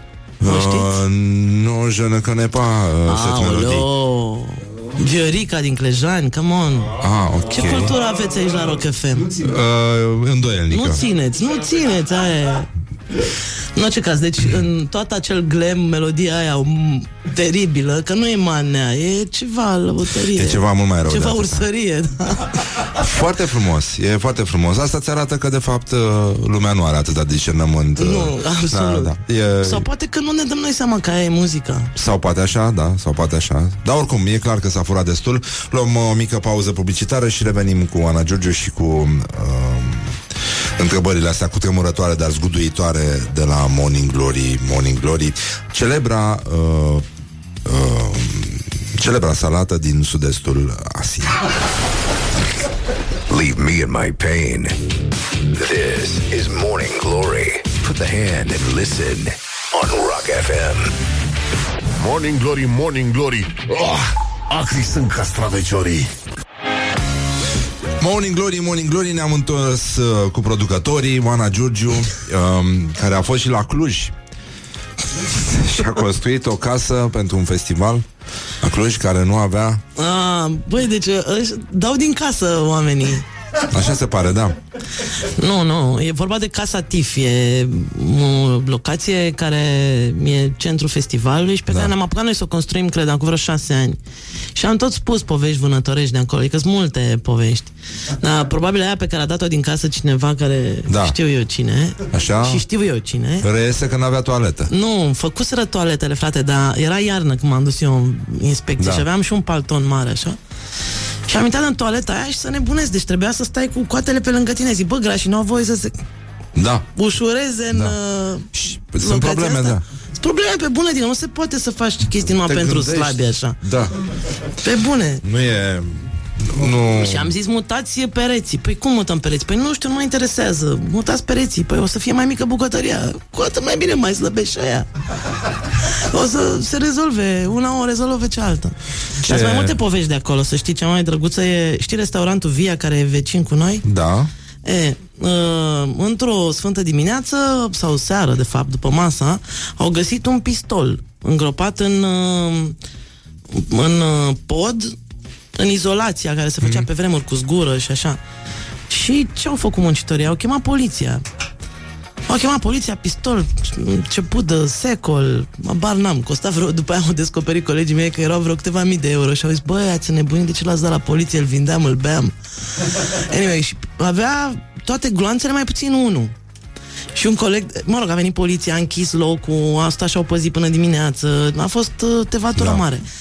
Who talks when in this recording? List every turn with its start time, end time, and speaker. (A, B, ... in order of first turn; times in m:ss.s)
0:00.4-0:03.9 A
0:00.4-0:00.9 B
0:03.0-0:07.0 B
0:07.0-0:07.9 A
0:07.5-0:09.4 B
0:09.3-0:11.0 A
0:10.7-0:22.7 B
0:20.3-0:21.7 A
0:22.9-0:29.9 A
0:28.0-0:31.9 B
0:31.9-0:40.2 A
0:40.8-0:47.0 A
0:47.6-0:51.4 A
0:53.3-0:54.8 C
0:55.5-1:00.9 C
1:02.0-1:06.1 D
1:08.0-1:14.1 A
1:15.2-1:18.1 A
1:18.6-1:19.8 A
1:20.0-1:23.2 B
1:23.7-1:24.6 A
1:25.1-1:34.0 B
1:34.5-1:43.5 B
1:40.9-1:41.2 A
1:42.1-1:42.6 A
1:43.4-1:44.7 A
1:44.7-1:50.4 B
1:48.8-1:49.0 A
1:51.3-1:55.9 B
1:56.6-1:56.9 A
1:56.9-2:03.6 B
1:58.5-1:59.8 A
2:02.4-2:03.9 A
2:04.6-2:05.2 B
2:05.2-2:07.3 A
2:06.8-2:14.9 B
2:15.7-2:23.8 B
2:19.2-2:19.8 A
2:23.8-2:24.3 A
2:24.6-2:32.8 B
2:33.5-2:35.0 B
2:35.5-2:38.2 B
2:38.9-2:41.2 B
2:42.3-2:56.3 B
2:57.1-3:03.0 B
3:02.6-3:02.8 A